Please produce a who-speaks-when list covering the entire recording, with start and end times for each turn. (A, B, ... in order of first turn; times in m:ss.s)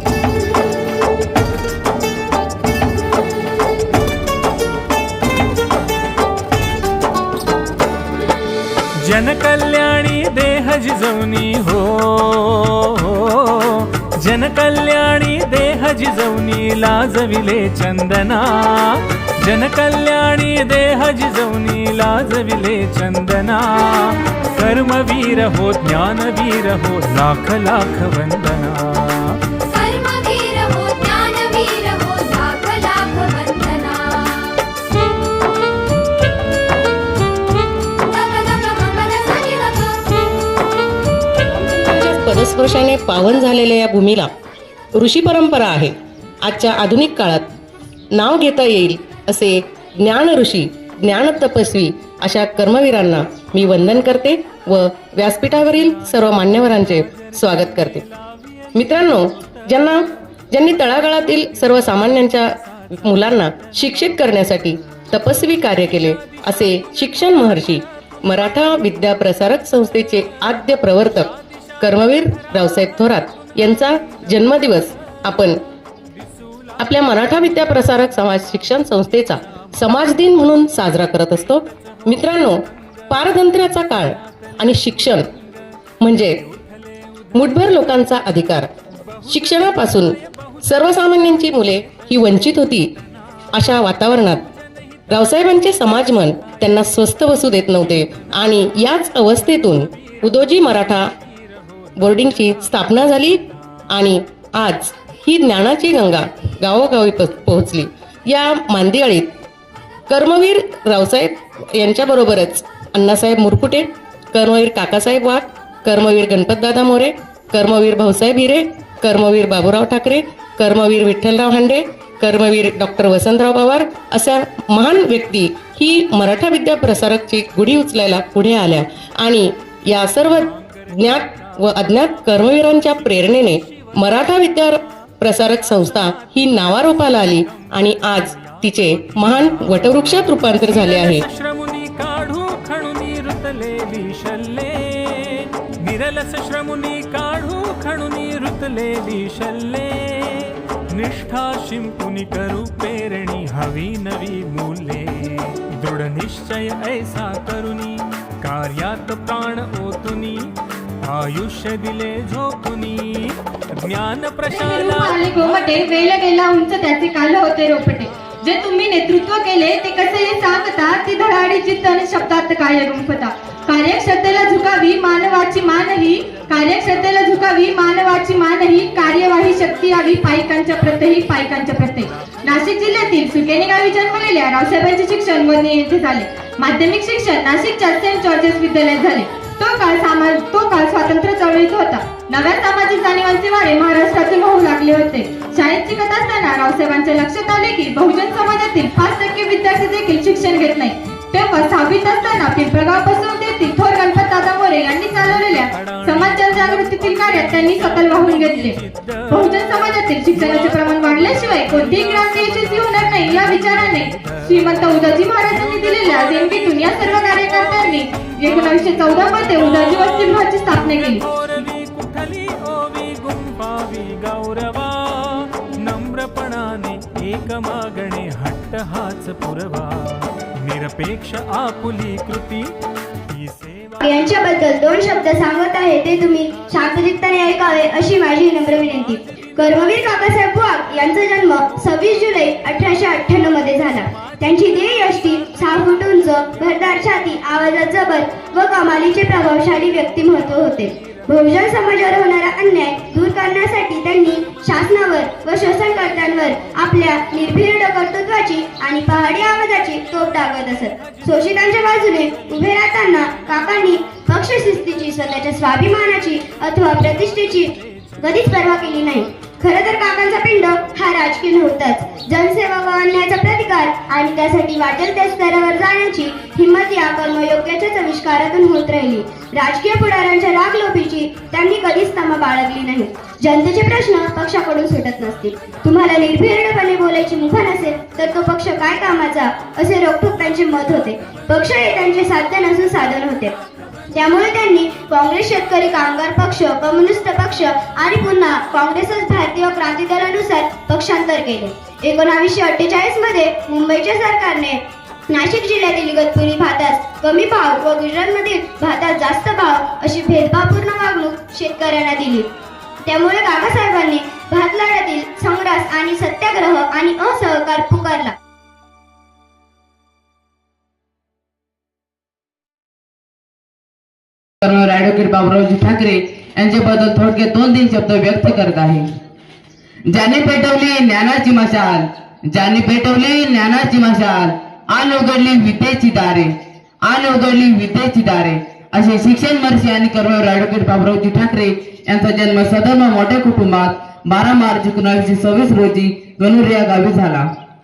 0:09.0-0:29.4 A
0:29.7-0:34.6 B
0:38.1-0:40.2 B
0:41.5-0:44.3 C
0:44.9-0:47.5 C
0:48.2-0:58.0 C
0:55.3-1:00.0 A
0:58.7-1:02.5 C
1:00.6-1:02.7 A
1:03.0-1:15.6 C
1:03.6-1:04.6 A
1:06.0-1:07.8 A
1:10.7-1:13.8 A
1:14.5-1:15.1 A
1:16.4-1:19.0 A
1:16.8-1:25.2 C
1:19.6-1:22.6 A
1:23.2-1:23.5 A
1:24.8-1:25.2 A
1:26.0-1:26.4 C
1:26.1-1:28.5 A
1:27.3-1:28.7 C
1:29.1-1:32.1 A
1:29.3-1:32.9 C
1:33.5-1:34.4 C
1:34.2-1:37.0 A
1:35.1-1:41.1 C
1:37.8-1:43.2 A
1:42.0-1:49.3 C
1:50.1-2:21.2 C
2:10.0-2:14.7 A
2:15.3-2:40.5 A
2:41.0-2:45.7 A
2:44.5-3:41.2 D
3:24.9-3:52.7 A
3:53.3-3:54.0 A
3:54.0-4:53.5 E
4:54.1-5:12.5 E
5:13.0-5:18.3 E
5:24.6-5:29.1 F
5:30.1-5:47.5 F